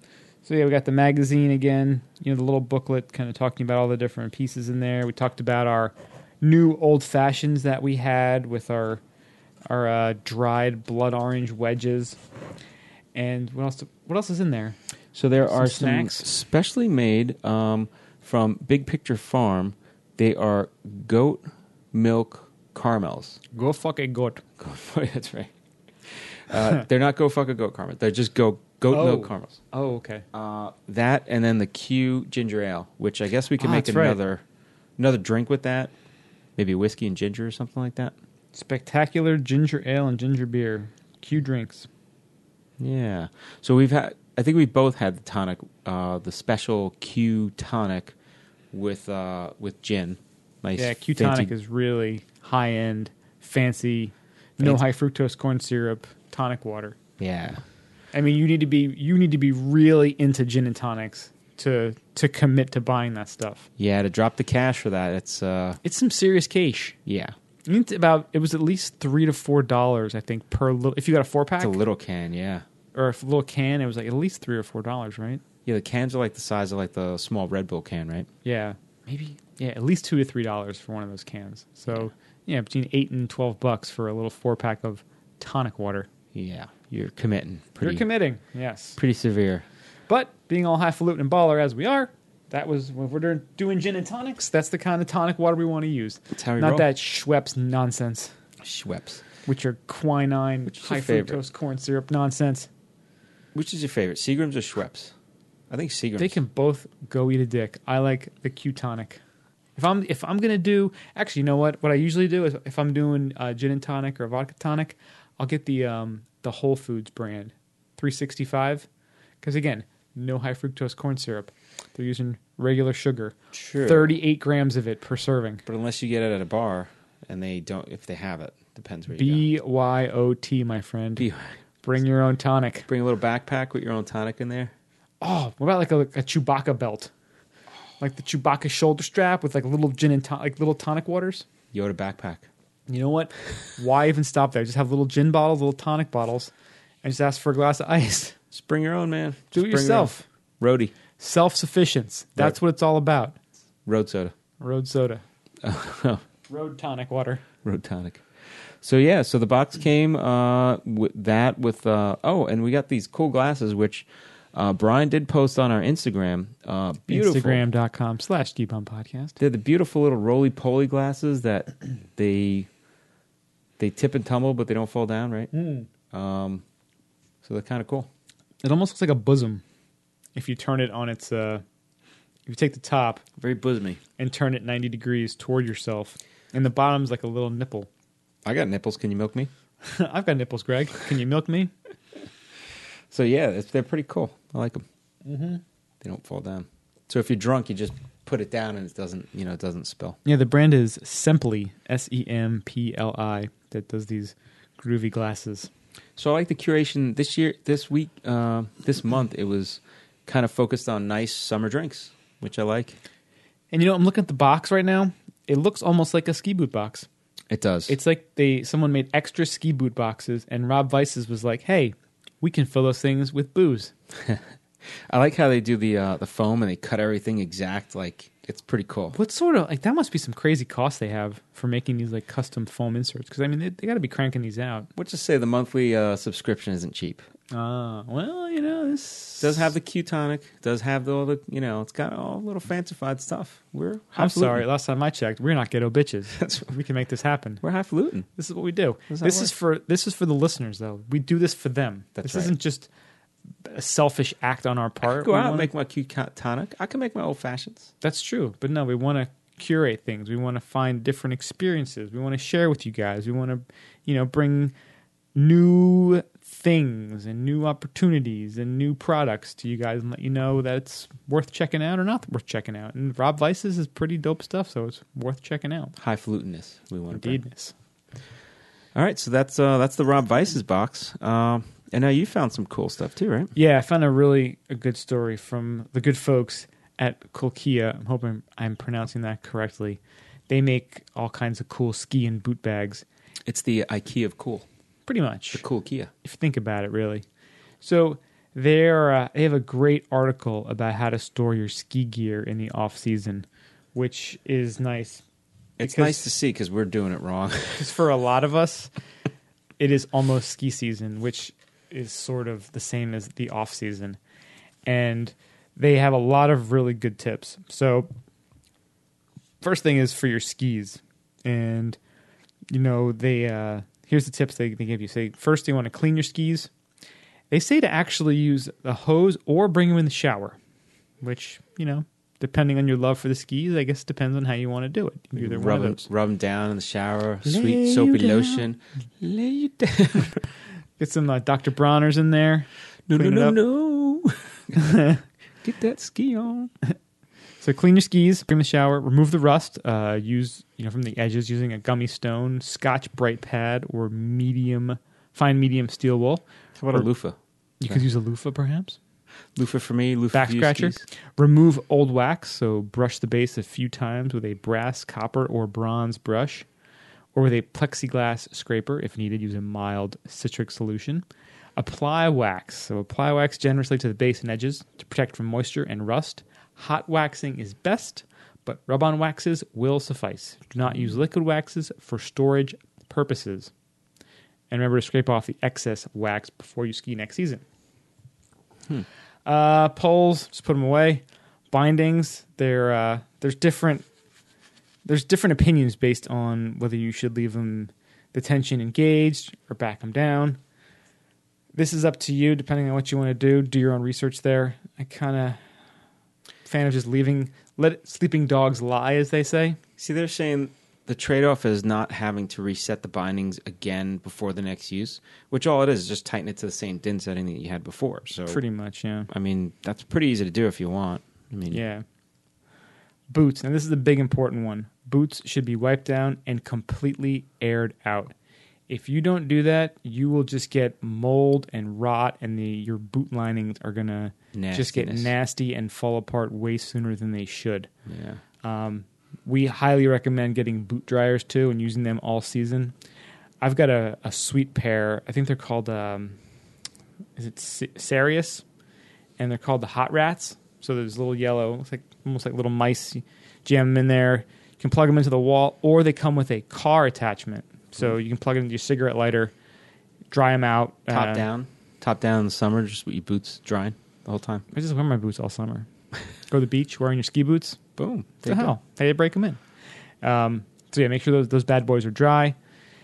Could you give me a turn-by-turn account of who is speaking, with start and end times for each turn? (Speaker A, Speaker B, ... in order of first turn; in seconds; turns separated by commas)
Speaker A: 0.5-9.0, Speaker A: 9.7-12.2, Speaker A: 13.1-14.8, Speaker B: 15.1-23.4, Speaker A: 15.5-16.3, Speaker A: 23.5-24.4, Speaker B: 24.6-25.5, Speaker B: 26.1-29.6, Speaker A: 28.9-30.2, Speaker B: 30.3-34.4, Speaker A: 33.6-34.2, Speaker B: 35.0-35.9, Speaker B: 36.6-38.1, Speaker A: 38.5-41.9, Speaker B: 42.8-48.1, Speaker B: 48.7-51.5, Speaker A: 50.8-57.0, Speaker B: 57.2-57.6, Speaker A: 58.1-63.7, Speaker B: 63.8-65.8, Speaker A: 65.8-67.0, Speaker B: 67.1-67.3, Speaker A: 67.7-71.8, Speaker B: 71.6-72.7, Speaker A: 72.9-75.4, Speaker B: 75.7-78.3, Speaker A: 78.4-86.1, Speaker B: 86.3-88.0, Speaker A: 87.8-89.0, Speaker B: 89.0-89.7, Speaker A: 90.1-98.3, Speaker B: 96.3-96.9, Speaker B: 98.6-99.2, Speaker A: 99.5-102.7, Speaker B: 100.7-101.4, Speaker B: 103.5-105.1, Speaker B: 105.7-106.4, Speaker A: 106.2-109.2, Speaker A: 109.8-118.9, Speaker A: 119.4-125.6, Speaker B: 123.5-124.1, Speaker B: 125.7-129.5, Speaker A: 129.1-131.3, Speaker B: 131.2-131.5, Speaker A: 131.8-132.9, Speaker B: 132.9-134.7, Speaker A: 135.2-137.1, Speaker A: 138.0-141.4, Speaker B: 141.7-142.5, Speaker A: 142.9-146.5, Speaker A: 147.0-148.4, Speaker B: 148.5-150.9, Speaker A: 149.5-150.2, Speaker A: 151.2-153.4, Speaker B: 153.9-154.3, Speaker A: 154.6-155.2, Speaker B: 155.6-156.2, Speaker A: 156.5-157.4, Speaker B: 157.6-158.2, Speaker B: 158.8-167.7, Speaker A: 167.1-169.4, Speaker B: 169.4-172.7, Speaker B: 173.8-175.5, Speaker A: 175.5-175.9, Speaker B: 176.1-176.6, Speaker B: 177.4-178.1, Speaker A: 178.6-179.6, Speaker A: 180.3-181.6, Speaker A: 182.5-183.2, Speaker B: 183.4-184.0, Speaker A: 184.2-187.9, Speaker B: 188.4-189.5, Speaker A: 189.8-191.7, Speaker B: 193.1-194.8, Speaker A: 195.2-195.6, Speaker B: 196.0-200.2, Speaker A: 200.2-205.7, Speaker B: 206.2-213.0, Speaker A: 213.7-217.1, Speaker B: 217.5-218.0, Speaker A: 217.9-223.9, Speaker B: 225.1-229.2, Speaker A: 229.1-234.9, Speaker B: 235.0-237.2, Speaker A: 237.5-239.7, Speaker B: 239.4-244.6, Speaker A: 244.2-247.6, Speaker B: 246.4-246.7, Speaker B: 247.6-248.3, Speaker A: 248.4-252.9, Speaker B: 249.1-249.5, Speaker B: 252.2-252.5, Speaker A: 253.7-255.7, Speaker B: 255.0-257.9, Speaker A: 258.0-264.7, Speaker A: 265.4-275.9, Speaker B: 276.0-277.4, Speaker A: 277.1-277.7, Speaker B: 278.9-283.5, Speaker A: 283.6-293.0, Speaker B: 293.5-294.7, Speaker A: 295.1-295.6, Speaker B: 295.5-296.1, Speaker A: 296.2-297.2, Speaker A: 297.8-305.2, Speaker B: 305.8-307.9, Speaker A: 305.8-306.2, Speaker A: 307.8-308.9, Speaker A: 309.8-314.2, Speaker A: 314.9-318.1, Speaker A: 319.6-322.0, Speaker A: 322.7-326.7, Speaker A: 327.5-330.6, Speaker A: 331.2-336.0, Speaker B: 335.4-340.4, Speaker A: 337.4-338.6, Speaker A: 341.0-343.6, Speaker B: 343.1-344.8, Speaker A: 344.8-345.2, Speaker B: 345.6-346.7, Speaker A: 347.6-357.1, Speaker B: 356.8-358.0, Speaker A: 357.8-359.0, Speaker B: 359.6-361.1, Speaker A: 360.3-366.7, Speaker A: 367.4-371.2, Speaker A: 371.8-383.7, Speaker A: 384.7-387.6, Speaker A: 389.5-394.1, Speaker A: 395.1-400.6, Speaker A: 401.7-405.6, Speaker A: 406.6-409.8, Speaker B: 410.0-418.6, Speaker A: 418.5-419.3, Speaker B: 419.3-421.8, Speaker A: 421.7-422.1, Speaker A: 423.3-428.3, Speaker A: 428.9-437.9, Speaker B: 434.5-435.3, Speaker B: 438.1-438.4, Speaker A: 438.6-442.9, Speaker A: 443.6-446.4, Speaker A: 447.4-448.6, Speaker A: 449.4-459.5, Speaker A: 460.3-461.5, Speaker B: 461.1-464.7, Speaker A: 464.7-465.9, Speaker A: 466.5-467.8, Speaker B: 468.0-468.8, Speaker A: 468.4-469.6, Speaker A: 470.2-472.6